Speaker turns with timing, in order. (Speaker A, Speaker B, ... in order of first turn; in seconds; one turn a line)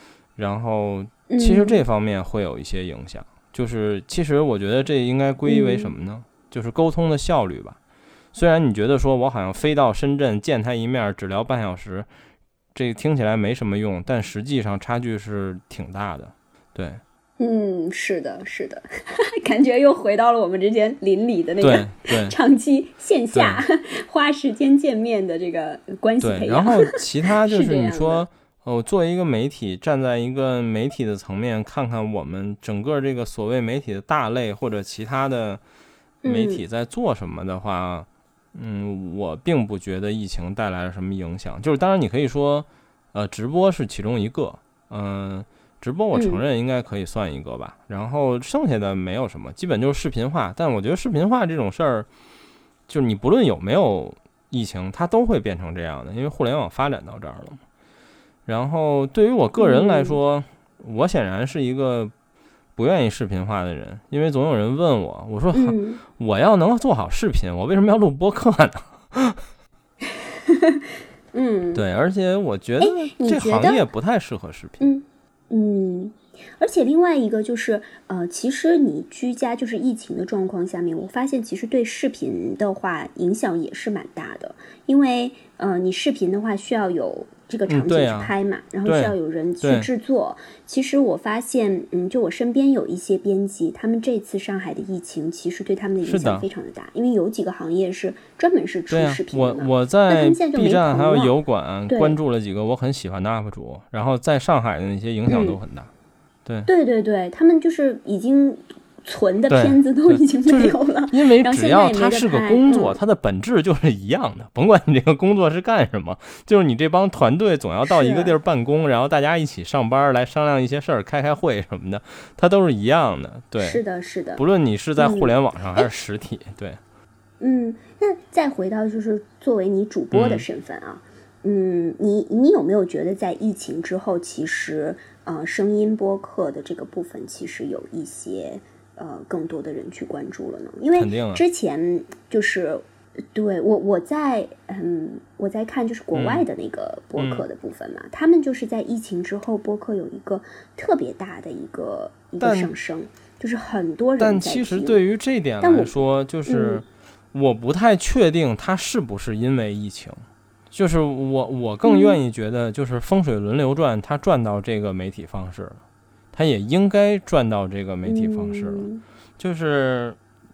Speaker A: 0.4-7.8
Speaker B: 1.3-1.8
Speaker B: 5.5-5.9
Speaker A: 8.3-12.1
Speaker A: 12.7-17.0
Speaker B: 17.4-28.2
Speaker A: 21.6-22.4
Speaker A: 23.3-23.6
Speaker A: 26.2-35.6
Speaker B: 36.2-36.6
Speaker A: 36.3-52.1
Speaker B: 46.1-46.4
Speaker A: 52.9-57.6
Speaker A: 58.5-62.1
Speaker B: 59.6-60.2
Speaker A: 62.8-69.4
Speaker B: 65.5-66.0
Speaker B: 70.2-71.8
Speaker A: 71.7-74.9
Speaker B: 72.8-73.8
Speaker B: 74.8-101.3
Speaker A: 87.7-88.3
Speaker A: 88.8-89.9
Speaker A: 96.0-96.5
Speaker A: 98.9-105.9
Speaker B: 101.9-102.2
Speaker B: 105.3-105.6
Speaker B: 106.7-113.0
Speaker A: 109.5-123.8
Speaker B: 117.8-118.3
Speaker B: 123.6-124.4
Speaker A: 124.4-126.8
Speaker B: 125.0-125.9
Speaker B: 127.4-155.0
Speaker A: 130.1-130.4
Speaker A: 140.9-141.4
Speaker A: 146.1-146.4
Speaker A: 147.2-147.4
Speaker A: 152.4-152.7
Speaker A: 154.2-160.2
Speaker B: 155.6-155.9
Speaker B: 156.5-156.8
Speaker A: 160.7-165.8
Speaker B: 161.8-162.2
Speaker A: 166.3-168.9
Speaker B: 168.1-169.0
Speaker A: 169.4-170.2